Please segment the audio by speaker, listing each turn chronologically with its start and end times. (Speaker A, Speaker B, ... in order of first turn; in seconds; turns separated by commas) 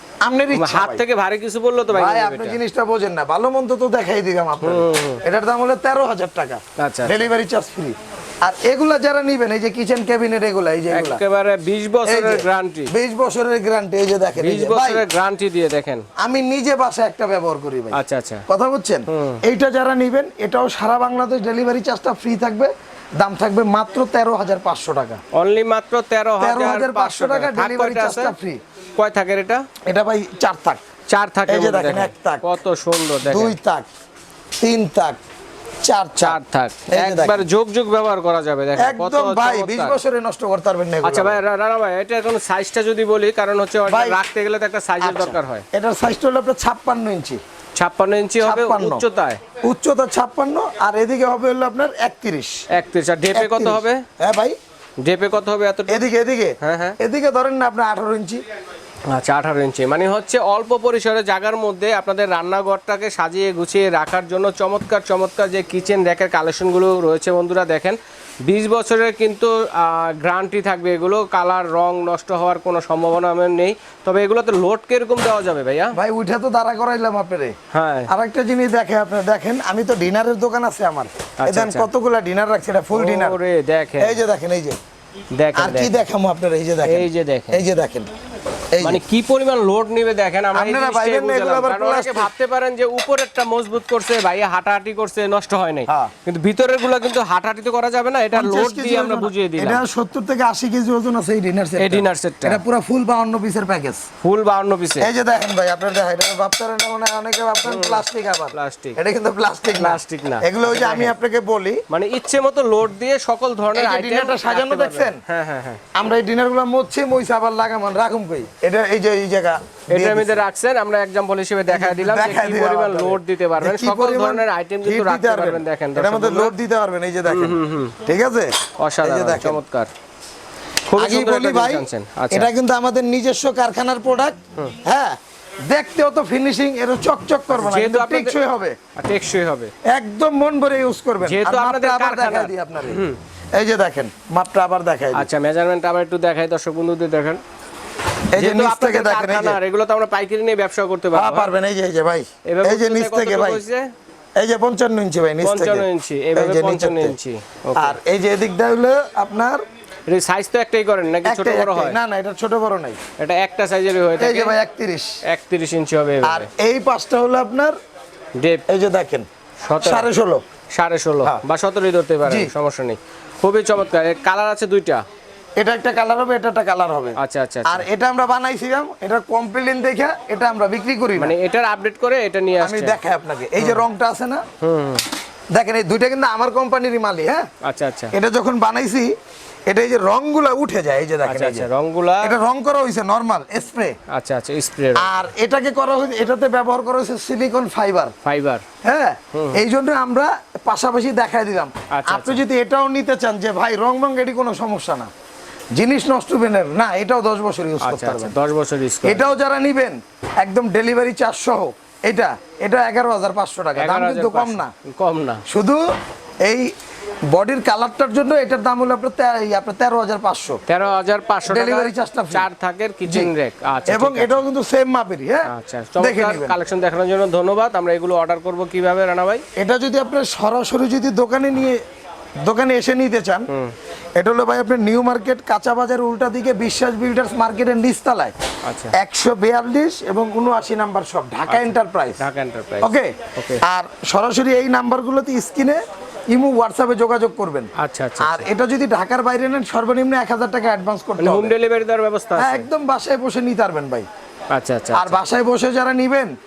Speaker A: 0.2-1.0, Speaker B: 0.5-2.6, Speaker A: 1.9-11.2, Speaker B: 4.6-5.2, Speaker B: 6.8-7.1, Speaker B: 10.9-12.9, Speaker A: 12.1-15.0, Speaker B: 14.4-16.1, Speaker A: 16.2-25.2, Speaker B: 17.9-18.4, Speaker B: 19.1-19.4, Speaker B: 25.3-28.3, Speaker A: 26.4-28.6, Speaker B: 29.0-29.6, Speaker A: 29.9-30.8, Speaker B: 31.1-33.6, Speaker A: 31.5-32.5, Speaker A: 33.2-33.9, Speaker A: 34.6-35.2, Speaker A: 35.8-37.4, Speaker B: 36.2-40.0, Speaker A: 38.8-41.4, Speaker B: 41.0-45.6, Speaker A: 43.9-44.2, Speaker A: 45.0-47.4, Speaker B: 47.7-49.4, Speaker A: 48.4-49.0, Speaker A: 49.6-52.6, Speaker B: 52.7-54.0, Speaker A: 53.3-54.5, Speaker B: 55.0-56.1, Speaker A: 55.9-58.4, Speaker B: 56.6-57.0, Speaker B: 59.1-76.0, Speaker A: 75.9-77.5, Speaker B: 77.7-78.1, Speaker A: 78.1-83.4, Speaker B: 81.4-81.9, Speaker B: 82.9-84.2, Speaker A: 84.0-84.8, Speaker B: 85.3-86.0, Speaker A: 85.5-88.1, Speaker B: 86.8-87.6, Speaker A: 88.7-89.0, Speaker B: 88.8-99.8, Speaker A: 90.5-92.3, Speaker A: 95.9-96.1, Speaker A: 98.3-104.0, Speaker B: 101.8-102.6, Speaker B: 104.2-105.1, Speaker A: 105.0-111.8, Speaker B: 107.6-109.0, Speaker B: 109.8-111.1, Speaker B: 111.9-115.8, Speaker A: 113.7-115.2, Speaker A: 115.9-120.4, Speaker B: 119.9-126.5, Speaker A: 121.7-129.6, Speaker B: 127.2-128.0, Speaker B: 128.8-129.9, Speaker B: 130.9-132.5, Speaker A: 131.0-135.2, Speaker A: 135.7-138.8, Speaker B: 137.5-138.4, Speaker B: 138.9-139.7, Speaker A: 139.9-145.3, Speaker B: 141.2-143.2, Speaker B: 145.1-147.4, Speaker A: 148.3-149.6, Speaker B: 148.3-151.5, Speaker A: 151.1-153.6, Speaker B: 152.4-153.9, Speaker A: 154.4-157.1, Speaker B: 155.4-158.0, Speaker A: 157.8-159.6, Speaker B: 160.1-162.0, Speaker A: 161.2-163.0, Speaker B: 163.2-164.6, Speaker A: 164.2-165.2, Speaker B: 165.2-166.5, Speaker A: 166.2-167.7, Speaker B: 168.4-168.6, Speaker A: 168.7-169.2, Speaker B: 169.6-170.1, Speaker A: 169.8-170.4, Speaker B: 170.7-175.0, Speaker A: 172.2-172.5, Speaker A: 175.6-181.3, Speaker B: 177.2-177.8, Speaker B: 181.2-183.0, Speaker A: 182.6-184.4, Speaker B: 183.6-183.8, Speaker B: 184.6-185.0, Speaker A: 185.5-187.4, Speaker B: 187.6-188.1, Speaker A: 188.1-189.1, Speaker A: 189.7-191.7, Speaker B: 191.2-192.4, Speaker A: 192.2-193.9, Speaker B: 194.1-195.1, Speaker A: 194.9-198.1, Speaker B: 198.2-198.6, Speaker A: 198.8-205.1, Speaker B: 199.3-199.6, Speaker B: 201.9-202.4, Speaker A: 205.8-208.3, Speaker B: 207.8-209.2, Speaker A: 209.0-214.7, Speaker B: 213.7-215.4, Speaker A: 215.5-215.8, Speaker A: 216.4-216.7, Speaker A: 217.3-220.6, Speaker B: 220.7-224.4, Speaker A: 221.4-222.4, Speaker A: 223.0-223.3, Speaker A: 223.9-226.6, Speaker B: 225.4-229.4, Speaker A: 229.6-231.8, Speaker A: 232.4-233.5, Speaker B: 233.5-233.7, Speaker A: 234.2-238.3, Speaker B: 238.6-238.9, Speaker A: 238.9-242.2, Speaker B: 241.5-243.6, Speaker A: 242.8-245.8, Speaker A: 246.3-251.5, Speaker B: 247.8-248.5, Speaker B: 251.2-252.7, Speaker A: 252.4-254.1, Speaker B: 254.5-255.2, Speaker A: 254.9-256.3